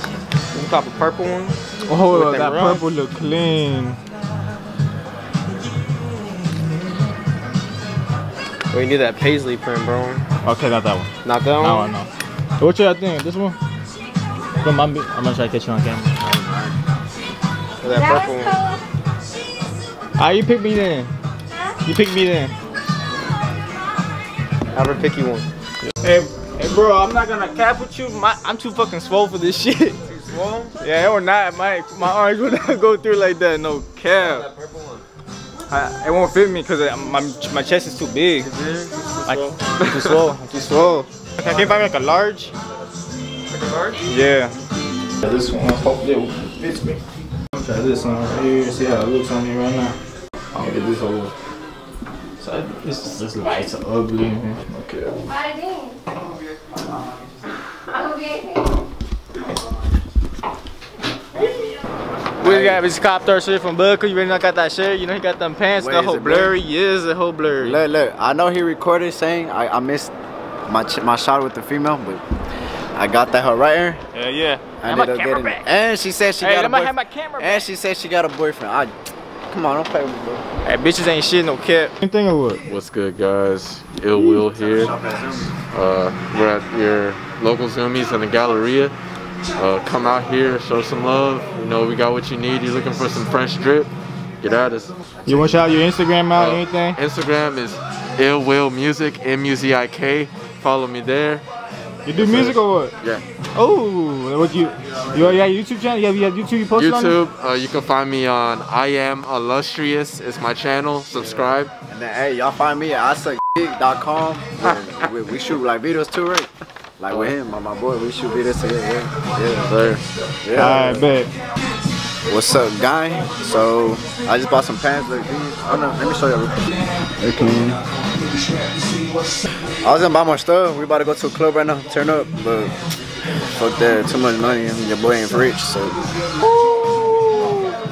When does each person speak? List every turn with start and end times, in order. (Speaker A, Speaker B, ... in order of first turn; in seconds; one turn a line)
Speaker A: 0.5-2.8
Speaker B: 1.9-4.0
Speaker A: 8.7-10.2
Speaker B: 10.4-13.6
Speaker A: 11.2-11.9
Speaker B: 14.6-16.2
Speaker C: 16.2-16.8
Speaker A: 17.8-18.6
Speaker B: 20.2-21.1
Speaker B: 21.8-22.5
Speaker A: 24.7-25.5
Speaker B: 25.9-30.0
Speaker A: 30.1-30.8
Speaker B: 30.8-34.5
Speaker A: 34.2-35.0
Speaker B: 35.7-38.5
Speaker A: 38.4-40.0
Speaker B: 39.2-42.5
Speaker A: 43.5-44.0
Speaker B: 44.0-44.5
Speaker B: 45.2-47.0
Speaker B: 47.5-49.9
Speaker B: 50.5-51.3
Speaker B: 52.4-55.2
Speaker B: 62.4-67.8
Speaker C: 62.4-62.8
Speaker C: 65.8-66.5
Speaker C: 67.6-70.1
Speaker C: 70.7-72.2
Speaker C: 73.0-74.0
Speaker B: 74.1-75.7
Speaker C: 74.8-78.9
Speaker B: 76.4-77.6
Speaker C: 79.5-80.4
Speaker B: 80.6-82.6
Speaker D: 82.7-84.9
Speaker C: 84.8-85.5
Speaker D: 85.7-88.9
Speaker D: 89.6-94.9
Speaker B: 95.2-97.0
Speaker D: 96.3-101.4
Speaker B: 102.0-102.9
Speaker D: 102.1-103.2
Speaker B: 103.5-107.2
Speaker D: 106.7-111.7
Speaker C: 111.9-119.7
Speaker D: 119.7-120.0
Speaker C: 120.4-121.1
Speaker B: 120.5-121.3
Speaker C: 122.3-126.6
Speaker C: 127.2-127.8
Speaker C: 129.8-132.7
Speaker C: 133.5-136.0